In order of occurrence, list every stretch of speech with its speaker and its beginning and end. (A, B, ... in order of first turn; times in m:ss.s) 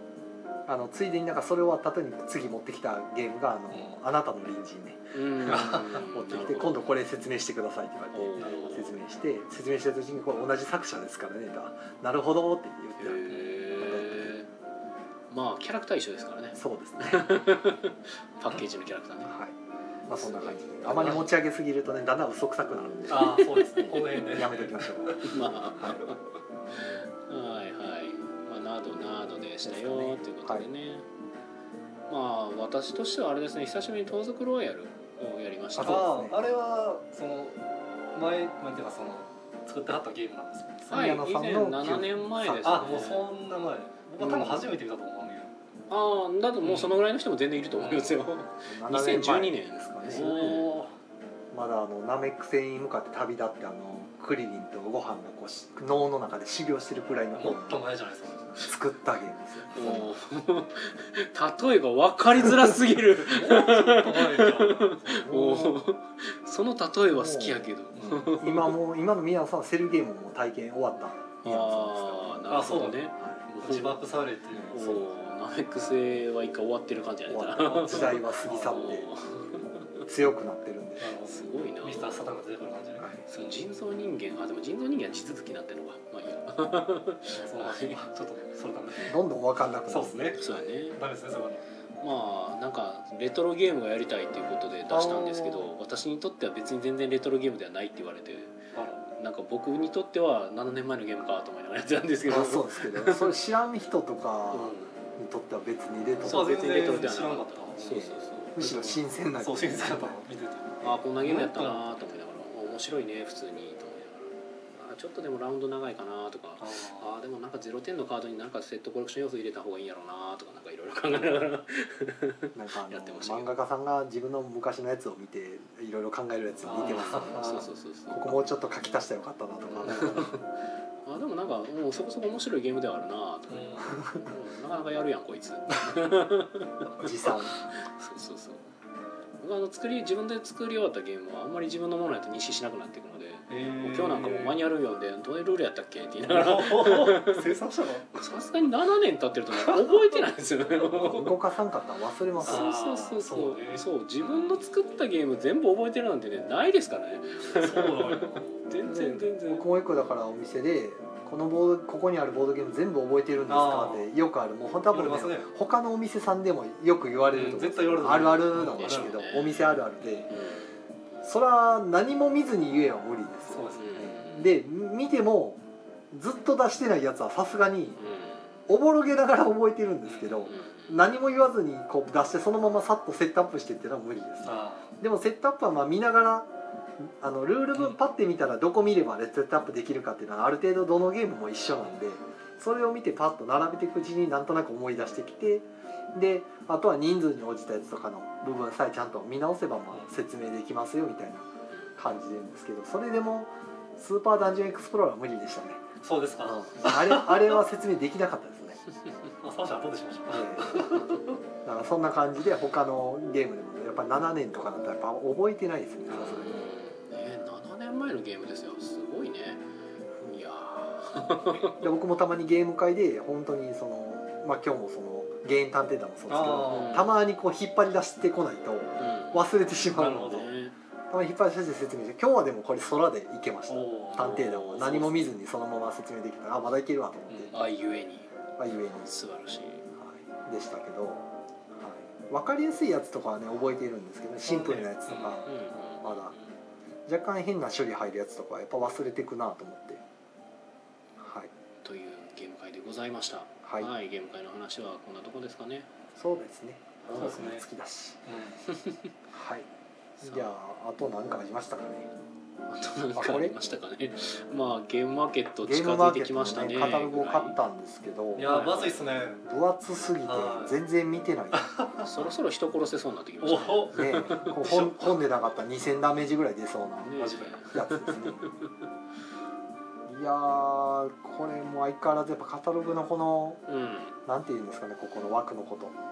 0:00.7-0:14.3 A
0:05.1-0:06.8 B
0:05.4-0:06.0 C
0:08.1-0:08.9 B
0:13.0-0:14.5 B
0:15.3-0:19.3 B
0:16.6-0:17.3 A
0:19.3-0:19.5 A
0:20.1-0:26.0 A
0:20.2-0:21.1 B
0:20.8-0:21.2 C
0:23.1-0:25.3 C
0:23.2-0:24.2 B
0:25.2-0:26.2 B
0:26.7-0:31.0 B
0:29.6-0:30.7 A
0:32.1-0:36.1 B
0:35.8-0:36.4 A
0:35.8-0:37.6 C
0:38.1-0:41.0 C
0:40.9-0:43.0 A
0:40.9-0:43.3 B
0:42.6-0:45.5 C
0:44.2-0:44.7 B
0:45.9-0:50.8 B
0:46.6-0:47.0 C
0:47.8-0:48.1 C
0:48.7-0:50.7 A
0:50.1-0:50.9 C
0:51.5-0:57.8 A
0:57.3-0:58.7 C
0:58.5-1:00.1 A
0:59.7-1:08.7 B
1:02.4-1:02.7 A
1:03.2-1:05.2 C
1:05.1-1:05.8 A
1:07.1-1:07.7 A
1:07.9-1:08.3 C
1:08.4-1:13.4 A
1:11.4-1:14.0 B
1:12.5-1:13.1 C
1:13.6-1:14.8 C
1:14.7-1:20.0 B
1:14.7-1:15.0 A
1:17.3-1:19.1 A
1:17.7-1:19.0 C
1:20.0-1:21.1 A
1:21.0-1:23.6 C
1:21.2-1:22.2 B
1:23.3-1:28.0 B
1:27.4-1:29.2 C
1:29.0-1:30.7 A
1:29.9-1:30.4 C
1:30.4-1:31.0 B
1:30.9-1:31.6 C
1:32.0-1:38.6 B
1:34.9-1:35.7 A
1:38.7-1:39.0 C
1:39.2-1:43.3 B
1:42.3-1:46.5 A
1:44.5-1:45.0 B
1:46.2-1:48.6 B
1:46.2-1:48.0 C
1:47.9-1:50.2 A
1:48.6-1:51.9 C
1:50.8-2:03.5 B
1:56.6-1:57.1 C
2:02.5-2:10.4 A
2:06.6-2:07.5 C
2:06.7-2:08.4 B
2:09.7-2:10.4 B
2:11.0-2:18.7 B
2:13.5-2:13.9 C
2:17.0-2:17.5 A
2:19.4-2:27.4 B
2:23.5-2:24.6 C
2:26.2-2:28.1 C
2:28.1-2:31.3 B
2:29.7-2:30.0 C
2:31.0-2:32.7 A
2:32.4-2:39.7 B
2:32.4-2:34.6 C
2:37.5-2:38.6 C
2:38.8-2:50.3 A
2:43.5-2:44.1 C
2:44.9-2:45.5 C
2:47.3-2:49.4 C
2:48.6-2:49.7 B
2:50.3-2:50.7 B
2:51.2-2:58.0 A
2:53.5-2:54.1 C
2:53.7-2:54.5 B
2:58.0-2:58.5 B
2:58.7-3:25.8 A
3:00.1-3:00.5 C
3:00.4-3:01.0 B
3:04.4-3:04.9 C
3:26.0-3:27.6 C
3:26.4-3:28.8 A
3:29.4-3:31.4 C
3:30.3-3:31.1 A
3:31.6-3:36.7 A
3:36.1-3:39.6 B
3:36.1-3:36.4 C
3:40.2-3:41.8 B
3:41.8-3:50.5 A
3:46.3-3:47.0 C
3:46.6-3:47.1 B
3:49.0-3:49.4 B
3:49.9-3:50.5 C
3:50.2-3:50.7 B
3:51.1-3:57.6 A
3:53.7-3:55.3 C
3:54.2-3:54.8 B
3:57.3-3:57.5 C
3:57.5-3:58.3 B
3:58.6-3:59.1 A
3:59.0-3:59.8 B
3:59.9-4:05.4 A
4:04.4-4:05.4 C
4:05.4-4:06.5 B
4:06.0-4:06.3 A
4:07.0-4:10.0 A
4:11.2-4:11.5 A
4:11.8-4:15.9 B
4:13.6-4:13.9 A
4:16.2-4:18.2 A
4:17.0-4:17.4 B
4:17.1-4:17.6 C
4:18.2-4:18.6 C
4:18.7-4:19.0 B
4:19.3-4:19.7 A
4:20.2-4:20.5 B
4:20.2-4:22.1 A
4:22.7-4:27.6 B
4:23.1-4:23.5 A
4:25.6-4:28.8 A
4:28.4-4:29.4 C
4:28.4-4:29.0 B
4:29.4-4:31.6 A
4:30.2-4:30.8 C
4:31.5-4:32.1 C
4:32.0-4:34.6 B
4:33.4-4:35.2 C
4:33.9-4:37.2 A
4:37.0-4:38.7 B
4:37.2-4:37.6 C
4:37.7-4:38.4 A
4:40.0-4:43.6 A
4:43.7-4:44.1 B
4:44.2-4:45.9 A